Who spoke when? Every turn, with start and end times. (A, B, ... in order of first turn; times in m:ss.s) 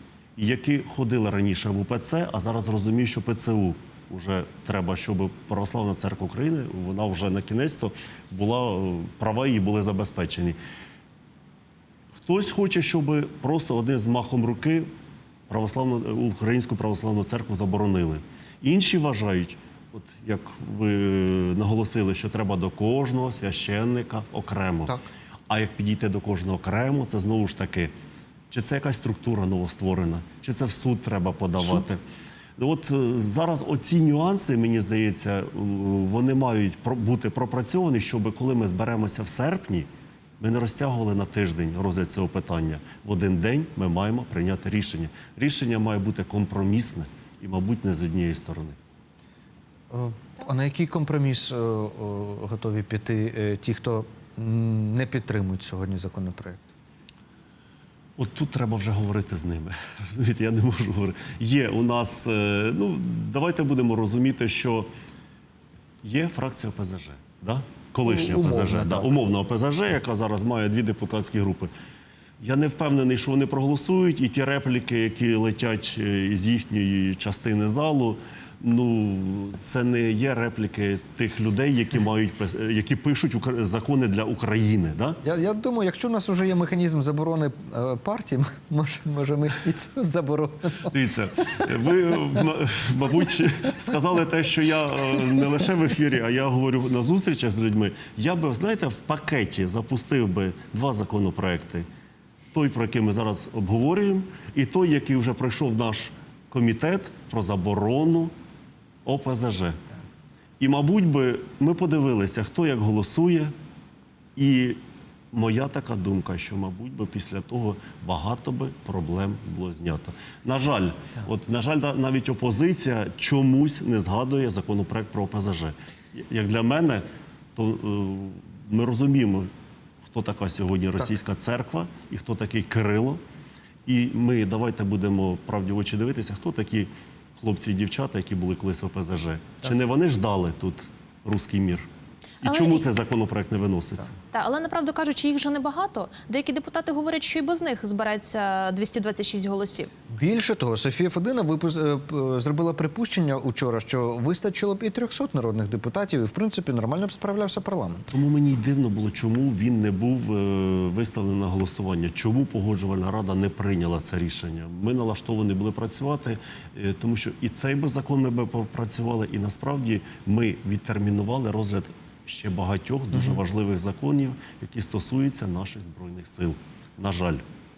0:00.4-0:10.6 A
0:12.2-0:14.9 A
0:15.5-0:25.0 A
0:25.5-0:27.9 A
0:28.5-0:32.0 A
0:32.6-0:39.9 A
0:40.4-0:48.8 A
0:49.9-0:56.7 B
0:58.2-1:04.9 A
1:06.0-1:11.7 A
1:08.0-1:09.1 B
1:12.4-1:25.2 A
1:25.2-1:30.9 B
1:30.9-1:41.9 A
1:42.5-1:48.3 A
1:49.0-1:49.8 A
1:50.6-1:53.5 A
1:54.4-1:54.8 A
1:55.3-2:07.0 A
2:07.5-2:09.5 A
2:10.1-2:13.2 A
2:13.8-2:21.9 A
2:22.4-2:24.1 A
2:22.4-2:22.8 C
2:24.3-2:29.9 C
2:30.1-2:38.1 B
2:38.1-2:57.4 A